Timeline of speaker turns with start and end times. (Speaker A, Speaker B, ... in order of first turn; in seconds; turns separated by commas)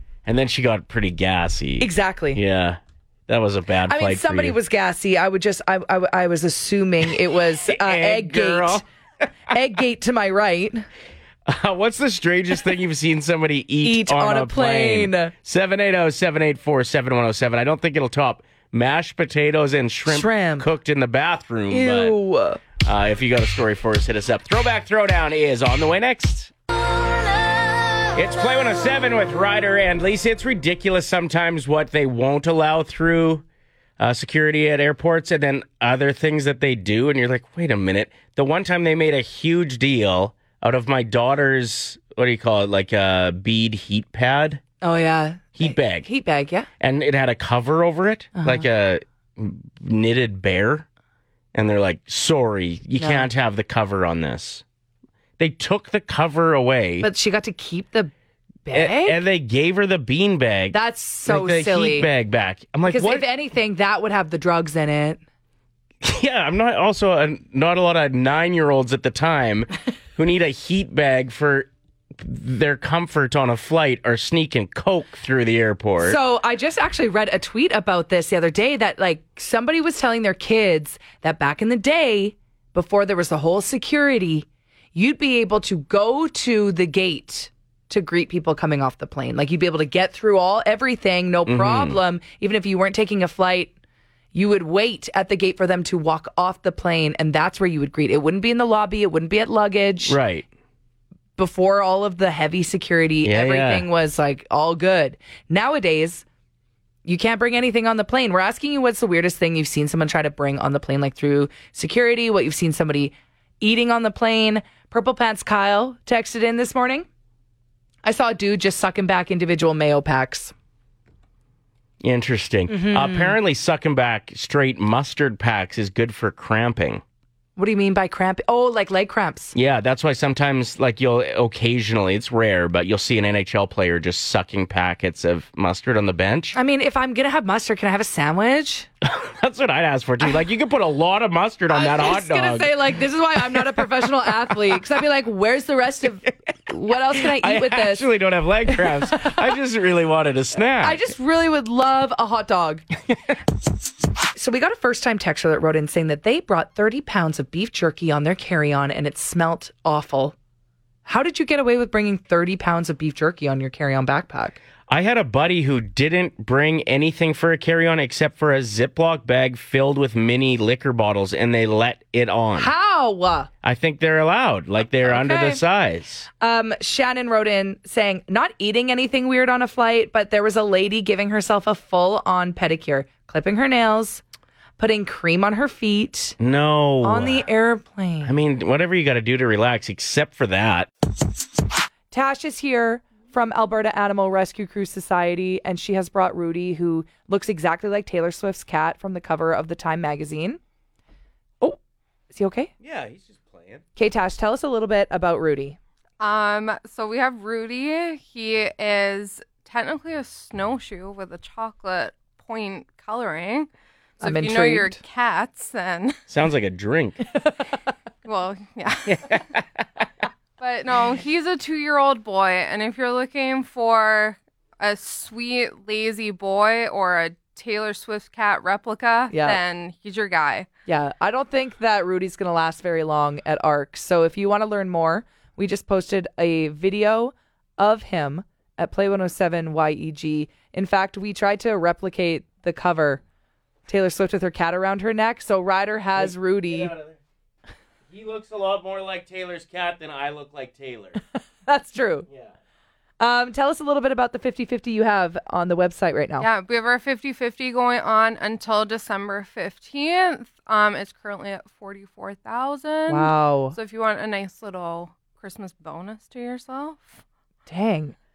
Speaker A: 0.2-4.6, Speaker B: 1.8-2.4, Speaker B: 3.9-8.8, Speaker A: 7.6-8.8, Speaker B: 9.5-10.8, Speaker A: 11.4-22.2, Speaker B: 13.8-15.3, Speaker B: 20.1-20.7, Speaker B: 21.7-22.6, Speaker A: 22.8-26.5, Speaker A: 28.1-33.4, Speaker A: 34.0-44.6, Speaker B: 44.8-46.7, Speaker A: 45.6-46.1, Speaker A: 46.8-50.9, Speaker B: 48.4-48.6, Speaker A: 51.5-54.6, Speaker B: 53.0-53.3, Speaker A: 55.4-57.1, Speaker B: 57.0-58.1, Speaker B: 58.6-59.2, Speaker A: 58.7-63.3, Speaker B: 60.7-62.1, Speaker B: 62.9-65.2, Speaker A: 66.0-76.2, Speaker B: 76.0-93.7, Speaker A: 91.5-92.0, Speaker B: 94.3-100.2, Speaker A: 100.0-100.5, Speaker B: 101.4-106.2, Speaker A: 103.2-103.9, Speaker B: 107.0-117.0, Speaker B: 118.0-120.5, Speaker A: 122.0-127.0, Speaker B: 122.7-123.4, Speaker B: 127.6-129.5, Speaker A: 129.5-136.6, Speaker B: 136.5-138.9, Speaker A: 139.0-142.8, Speaker B: 141.7-148.1, Speaker A: 147.1-151.0, Speaker B: 148.7-149.3, Speaker B: 150.8-152.8, Speaker B: 154.3-160.3, Speaker B: 161.1-164.6, Speaker A: 164.9-172.7, Speaker B: 172.6-173.5, Speaker A: 173.6-176.3, Speaker B: 175.0-175.6, Speaker B: 176.4-184.2, Speaker B: 184.8-186.4, Speaker A: 186.4-187.4, Speaker B: 187.0-188.3, Speaker A: 188.2-190.9, Speaker B: 192.1-200.6, Speaker B: 202.3-202.7, Speaker A: 202.8-203.8, Speaker B: 203.9-205.8, Speaker C: 206.2-213.7, Speaker C: 214.2-216.2, Speaker B: 214.2-215.0, Speaker A: 216.3-217.2, Speaker C: 218.2-219.4, Speaker A: 219.1-219.6, Speaker C: 220.6-230.7, Speaker B: 229.3-229.6, Speaker B: 230.9-243.2, Speaker B: 243.9-246.9, Speaker A: 246.2-247.2, Speaker A: 248.1-251.2, Speaker B: 251.7-252.3, Speaker B: 253.2-256.5, Speaker C: 256.4-267.2, Speaker B: 263.1-263.8, Speaker B: 267.7-268.1